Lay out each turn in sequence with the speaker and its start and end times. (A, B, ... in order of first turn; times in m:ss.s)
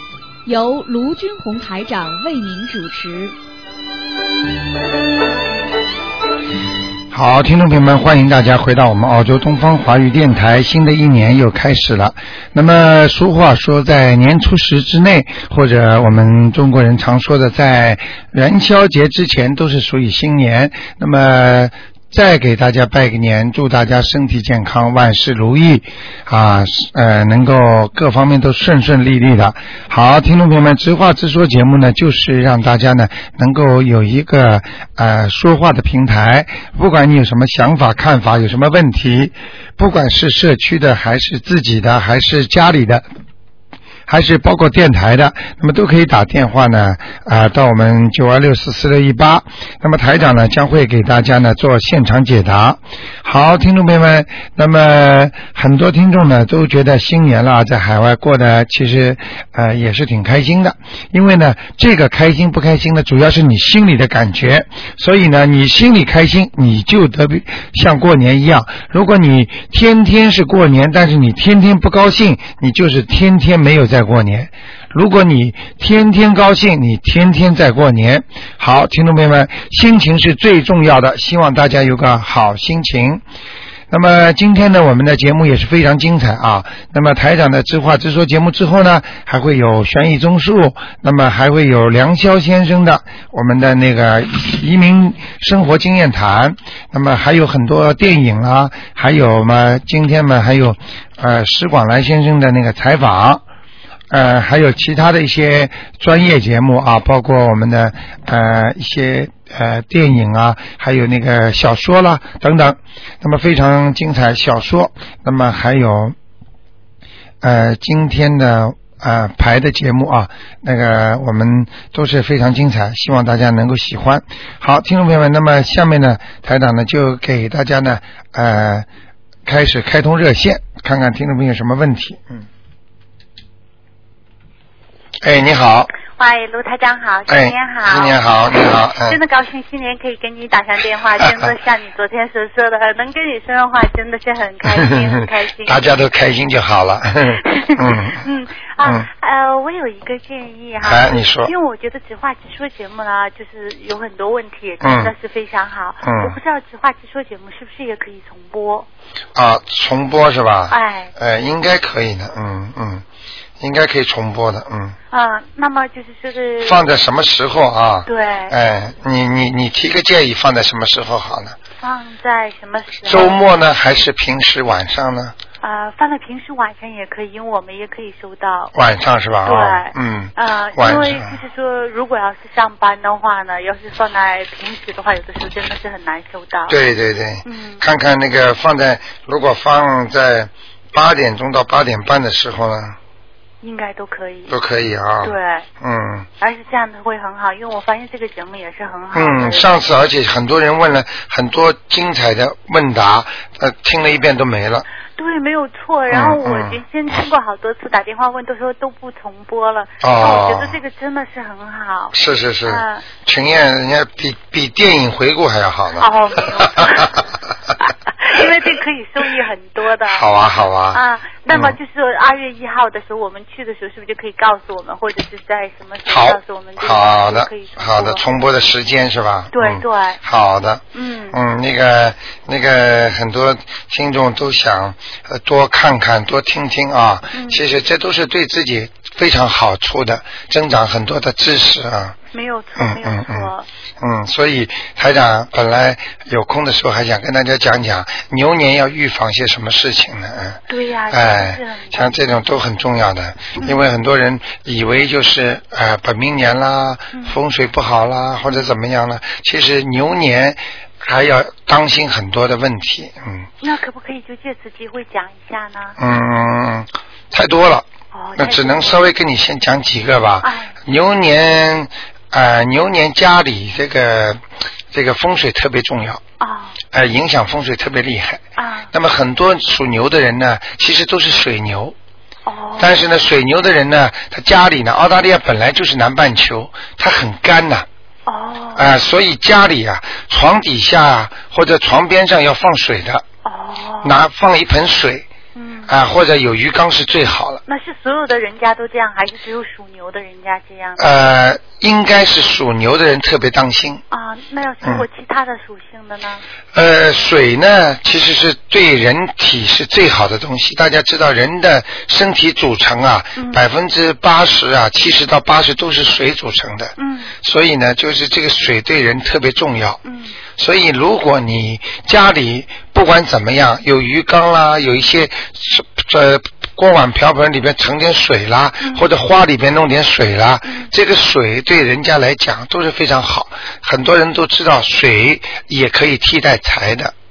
0:00.4-0:03.4 A
0:07.1-0:43.0 B
0:44.1-1:23.2 B
1:23.9-1:43.4 B
1:44.1-1:56.2 B
1:57.4-2:08.9 B
2:09.4-2:12.4 B
2:15.2-2:15.9 B
2:16.2-2:18.2 C
2:17.3-2:19.2 B
2:19.0-2:25.9 C
2:21.2-2:21.5 B
2:24.7-2:25.0 B
2:25.6-2:28.2 B
2:27.4-2:38.9 C
2:28.8-2:29.1 B
2:30.8-2:31.5 B
2:34.8-2:35.1 B
2:36.0-2:36.4 B
2:39.4-2:43.0 B
2:40.7-2:41.1 C
2:43.6-2:45.0 B
2:45.1-2:46.9 C
2:46.6-2:51.6 B
2:48.1-2:48.6 C
2:51.8-2:53.4 C
2:53.1-2:55.4 B
2:55.6-2:58.7 C
2:58.8-3:01.4 B
2:59.4-3:06.8 C
3:06.7-3:13.0 B
3:07.4-3:07.8 C
3:13.6-3:14.6 C
3:14.5-3:16.3 B
3:15.2-3:15.7 C
3:16.4-3:19.7 C
3:19.1-3:24.9 B
3:25.2-3:33.1 C
3:26.1-3:26.8 B
3:30.0-3:30.8 B
3:32.1-3:37.2 B
3:36.0-3:37.2 C
3:37.8-3:40.3 C
3:40.1-3:41.8 B
3:40.9-3:48.2 C
3:46.1-4:02.2 B
3:49.5-3:50.2 C
3:50.9-3:51.4 C
3:57.3-3:57.6 C
4:02.3-4:03.7 C
4:02.8-4:10.6 B
4:10.7-4:12.2 C
4:11.1-4:23.5 B
4:13.6-4:13.8 C
4:23.6-4:26.0 C
4:26.0-4:36.2 B
4:28.1-4:29.0 C
4:30.4-4:30.8 C
4:36.4-4:36.8 C
4:36.9-4:42.0 B
4:38.6-4:38.9 C
4:42.5-4:43.0 C
4:42.8-4:47.9 B
4:48.3-4:48.9 C
4:48.8-4:53.2 B
4:53.4-4:54.2 C
4:54.0-4:55.3 B
4:55.6-4:55.9 C
4:55.9-4:57.6 B
4:57.7-5:01.1 C
5:01.0-5:04.0 B
5:04.1-5:06.4 C
5:06.7-5:20.0 B
5:13.4-5:13.6 C
5:17.0-5:17.3 C
5:20.0-5:20.4 C
5:20.6-5:37.1 B